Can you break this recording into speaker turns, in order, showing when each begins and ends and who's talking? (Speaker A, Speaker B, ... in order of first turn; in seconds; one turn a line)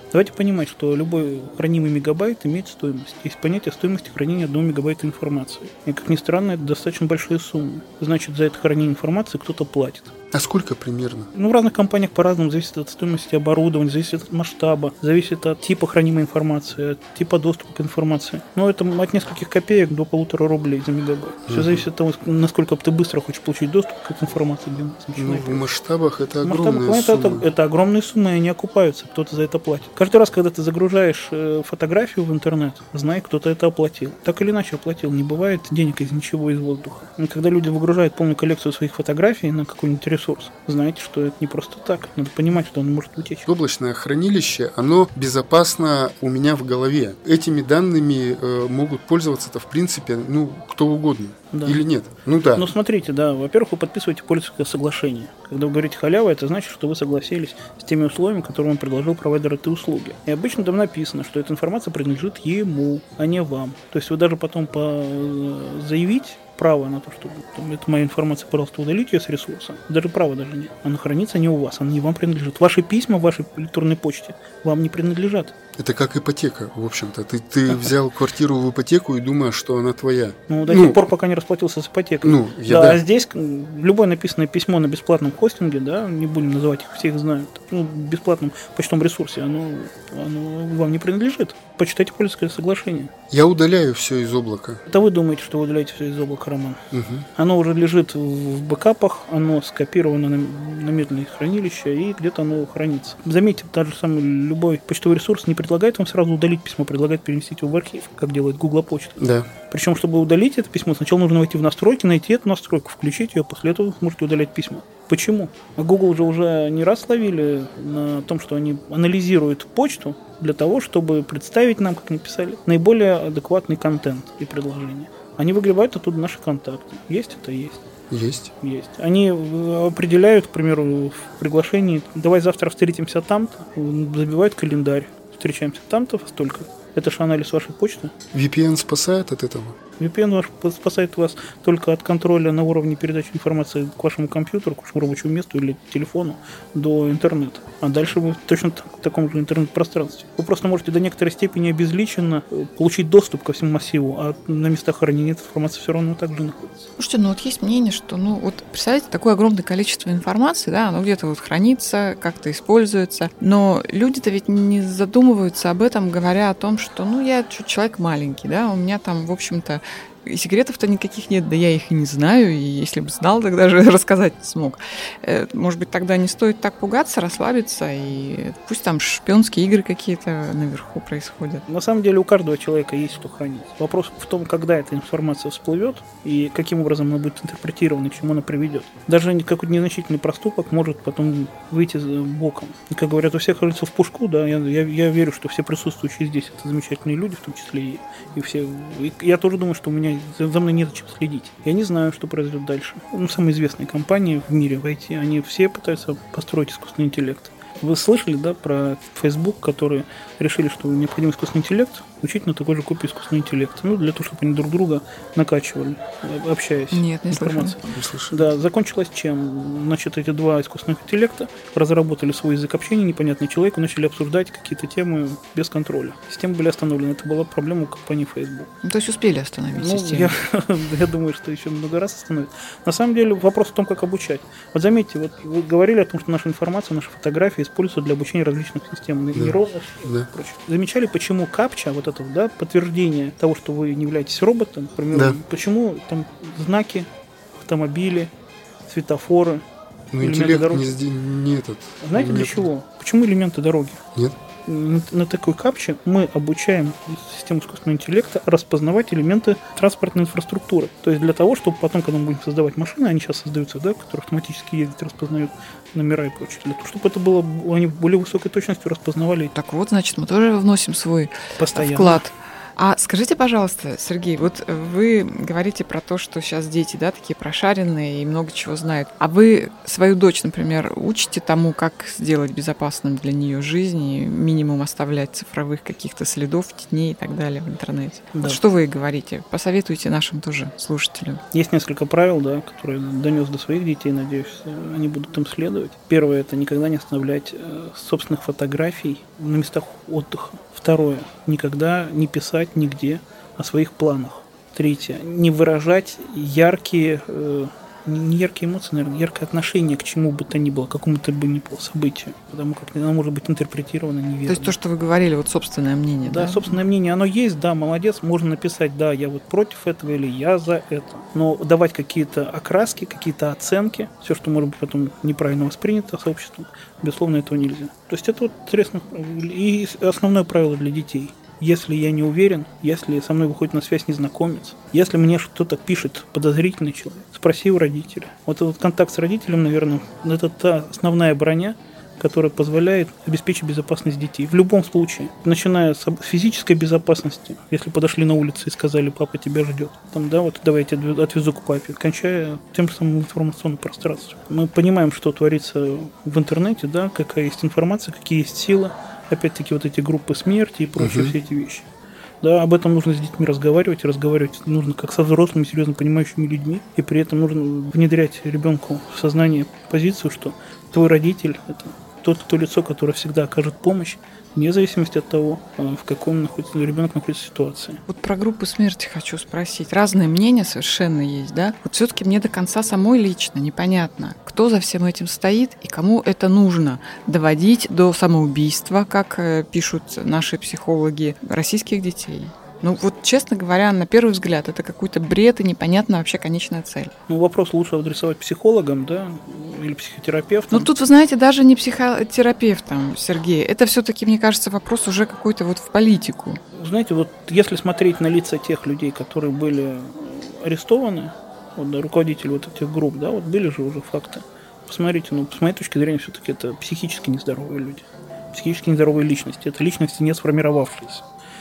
Speaker A: 0.1-10.1
Speaker B: 10.3-11.3
Speaker A: 11.3-25.6
Speaker B: 21.5-21.8
Speaker B: 25.1-27.4
Speaker A: 26.4-43.5
Speaker B: 43.5-52.7
Speaker A: 51.5-51.8
Speaker A: 52.5-75.5
Speaker B: 75.8-81.0
Speaker A: 80.5-93.1
Speaker B: 82.2-83.0
Speaker B: 93.3-94.8
Speaker A: 94.9-96.8
Speaker B: 96.9-97.3
Speaker A: 97.3-127.8
Speaker B: 109.2-109.5
Speaker B: 128.1-128.5
Speaker A: 128.6-138.1
Speaker B: 138.3-139.8
Speaker A: 140.0-156.9
Speaker C: 157.0-181.6
Speaker A: 181.7-228.7
Speaker C: 216.9-217.7
Speaker B: 217.9-218.5
Speaker C: 228.8-230.3
Speaker A: 229.7-247.1
Speaker B: 239.3-240.3
Speaker B: 245.1-245.4
Speaker A: 247.6-248.3
Speaker A: 248.9-249.6
Speaker B: 250.1-252.7
Speaker A: 250.2-250.9
Speaker A: 252.0-254.0
Speaker A: 254.7-269.5
Speaker C: 269.6-291.4
Speaker A: 271.5-272.2
Speaker A: 288.3-288.6
Speaker A: 291.5-314.7
Speaker C: 314.5-316.8
Speaker A: 316.2-361.9
Speaker B: 361.0-361.3
Speaker A: 362.4-378.0
Speaker C: 378.1-397.1
Speaker A: 397.3-400.9
Speaker C: 400.7-406.6
Speaker A: 406.7-421.2